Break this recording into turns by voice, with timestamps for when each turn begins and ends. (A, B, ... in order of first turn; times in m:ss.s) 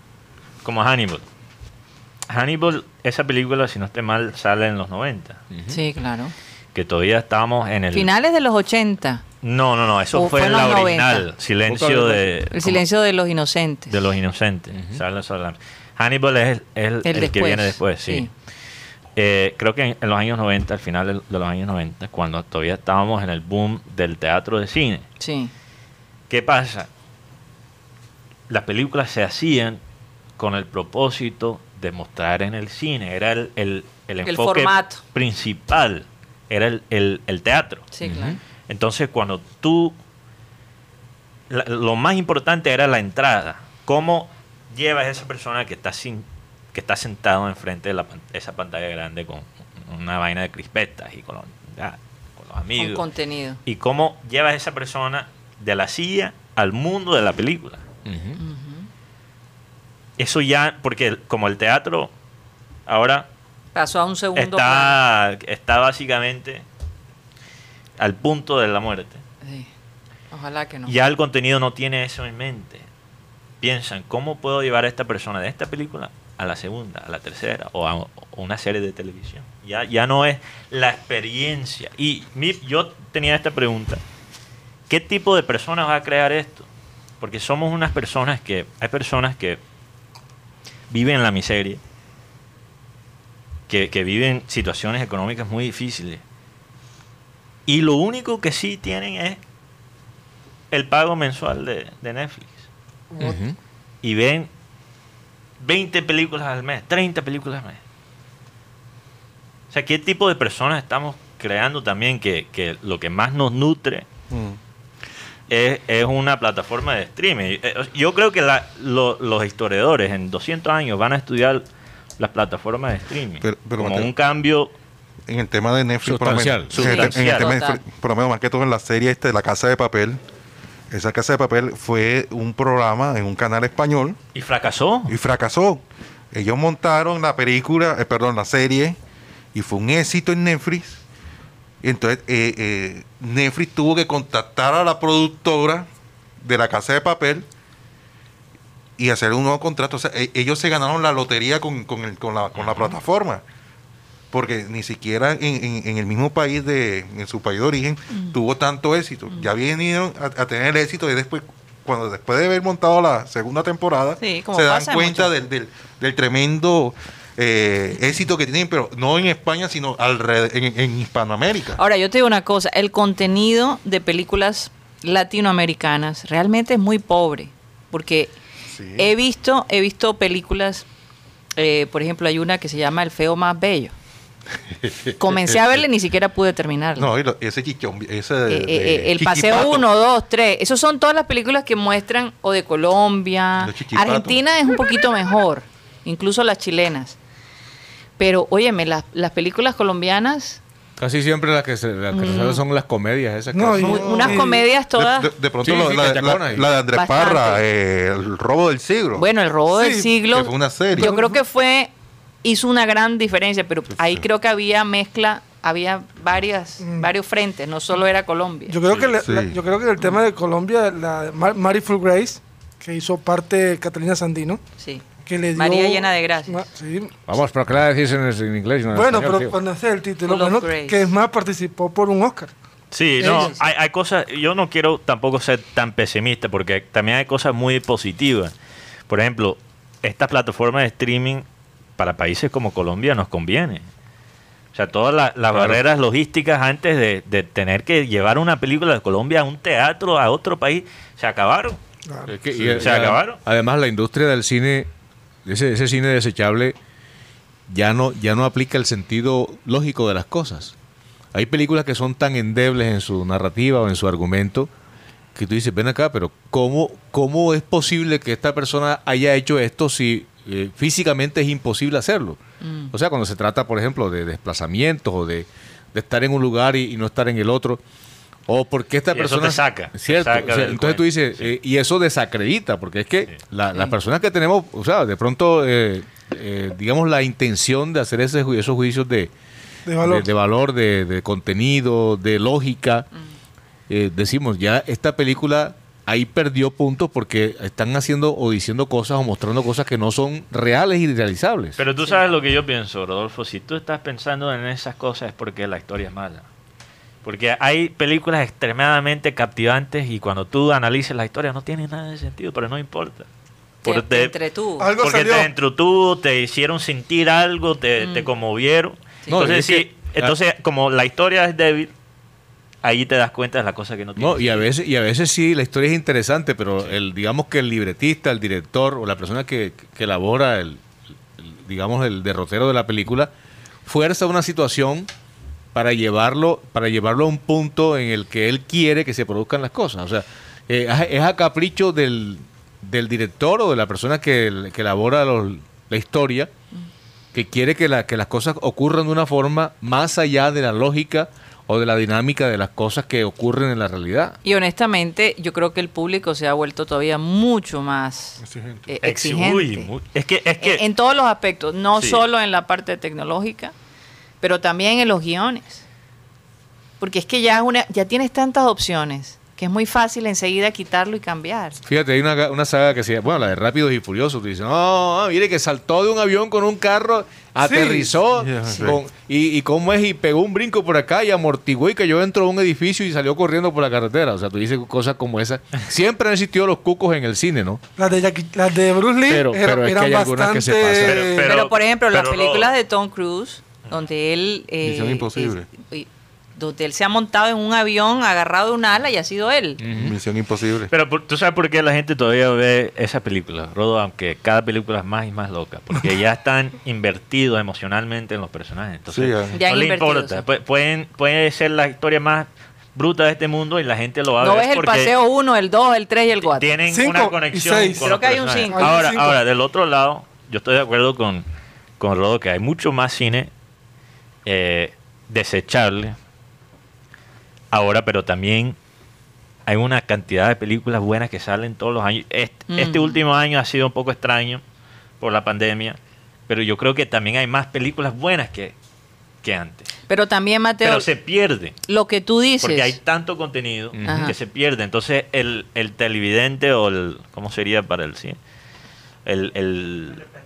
0:00.6-0:01.2 A
0:02.3-0:05.4 A
0:05.5-0:05.8 B
0:05.7-0:06.3 C
0:06.8-0:08.1 A
0:07.9-0:09.2 C
0:09.4-0:12.8 A
0:10.1-0:11.3 C
0:11.7-0:12.4 B
0:12.5-0:14.0 C
0:13.9-0:18.3 A
0:14.7-0:15.0 B
0:17.0-0:18.3 C
0:19.2-0:25.1 A
0:25.2-0:25.5 C
0:26.3-0:26.9 A
0:28.5-0:29.8 A
0:30.4-0:37.9 A
0:34.2-0:35.0 C
0:37.9-0:38.4 C
0:38.0-0:38.4 B
0:38.7-0:40.0 A
0:41.5-0:53.0 A
0:52.8-0:53.6 C
0:53.6-0:57.8 A
0:58.0-0:58.4 B
0:58.4-0:58.9 C
1:00.2-1:02.1 A
1:02.9-1:03.3 A
1:03.8-1:05.0 C
1:04.4-1:06.6 A
1:08.0-1:09.2 A
1:09.4-1:09.7 C
1:10.3-1:10.9 C
1:10.9-1:12.9 A
1:13.6-1:24.0 A
1:24.9-1:26.7 A
1:27.2-1:29.6 A
1:30.9-1:31.8 A
1:33.7-1:36.2 A
1:37.7-1:39.4 A
1:40.7-1:42.7 A
1:43.1-1:43.4 D
1:43.2-1:43.6 B
1:44.0-1:44.5 A
1:45.6-1:47.8 A
1:49.7-1:54.1 A
1:54.3-1:54.6 E
1:55.5-2:01.7 A
2:02.2-2:04.7 A
2:03.4-2:04.1 E
2:05.3-2:10.2 E
2:06.0-2:07.0 B
2:06.7-2:07.6 A
2:06.8-2:07.8 C
2:10.9-2:14.2 E
2:14.4-2:15.2 A
2:15.1-2:19.0 E
2:19.5-2:21.0 E
2:21.8-2:25.9 E
2:26.4-2:27.5 E
2:29.0-2:33.4 E
2:32.6-2:33.0 A
2:34.3-2:51.8 E
2:44.2-2:45.3 C
2:51.8-2:58.4 C
2:58.7-2:59.1 E
2:59.0-3:00.9 C
3:01.6-3:03.9 C
3:04.8-3:05.6 E
3:05.2-3:07.1 C
3:07.0-3:09.8 E
3:08.5-3:17.2 C
3:13.6-3:14.4 E
3:18.2-3:20.6 C
3:21.0-3:24.2 B
3:22.1-3:22.6 C
3:23.5-3:24.6 D
3:23.8-3:25.3 C
3:23.8-3:29.3 E
3:25.6-3:26.7 B
3:26.9-3:27.6 C
3:29.2-3:31.9 C
3:29.7-3:30.1 D
3:30.3-3:31.1 E
3:31.0-3:31.4 D
3:32.4-3:38.8 C
3:34.0-3:34.2 E
3:36.8-3:37.1 D
3:38.7-3:44.6 D
3:39.2-3:39.6 E
3:44.8-3:46.7 C
3:45.3-3:47.1 D
3:47.3-3:49.6 B
3:48.9-3:52.5 D
3:50.2-3:51.0 C
3:52.9-3:58.5 A
3:53.2-3:53.6 C
3:59.1-4:01.4 A
4:02.0-4:03.8 A
4:04.7-4:11.8 A
4:05.5-4:05.8 B
4:12.1-4:12.3 D
4:12.3-4:14.9 B
4:12.8-4:13.4 A
4:15.4-4:16.8 B
4:17.7-4:20.7 B
4:21.3-4:24.7 B
4:25.4-4:32.4 B
4:32.6-4:32.9 C
4:32.9-4:37.8 B
4:38.5-4:49.3 B
4:39.1-4:41.5 A
4:49.9-4:50.3 D
4:50.0-4:53.1 B
4:53.9-5:01.8 B
5:01.8-5:06.4 A
5:07.2-5:13.3 A
5:13.8-5:14.4 A
5:13.8-5:14.9 C
5:14.8-5:15.5 D
5:15.0-5:21.9 A
5:18.0-5:18.3 C
5:19.3-5:20.3 B
5:22.8-5:24.7 A
5:24.2-5:30.8 B
5:31.4-5:33.3 B
5:33.9-5:35.1 B
5:35.7-5:46.5 B
5:47.3-5:54.4 B
5:54.4-5:59.9 C
5:58.4-5:58.9 E
5:59.0-6:00.8 A
6:00.6-6:03.7 C
6:02.0-6:02.2 A
6:04.4-6:05.8 C
6:07.0-6:11.8 C
6:11.8-6:27.8 B
6:17.6-6:18.1 D
6:18.3-6:19.0 E
6:28.0-6:31.5 D
6:29.3-6:31.3 B
6:31.0-6:32.7 A
6:31.4-6:39.8 C
6:34.8-6:35.7 E
6:39.8-6:40.2 B
6:39.9-6:40.9 E
6:40.9-6:55.2 A
6:49.1-6:49.6 E
6:49.5-6:50.4 C
6:54.4-6:56.7 C
6:56.4-7:01.5 A
6:56.9-6:58.1 D
6:58.0-6:59.0 C
6:58.7-6:59.4 D
7:02.0-7:03.5 A
7:04.4-7:06.2 A
7:07.7-7:08.8 A
7:09.7-7:14.6 A
7:12.7-7:13.2 C
7:15.2-7:18.8 A
7:19.4-7:19.9 A
7:20.1-7:21.1 C
7:20.8-7:21.8 A
7:21.9-7:23.0 C
7:22.6-7:28.4 A
7:23.9-7:24.3 B
7:24.0-7:24.3 C
7:29.2-7:30.2 A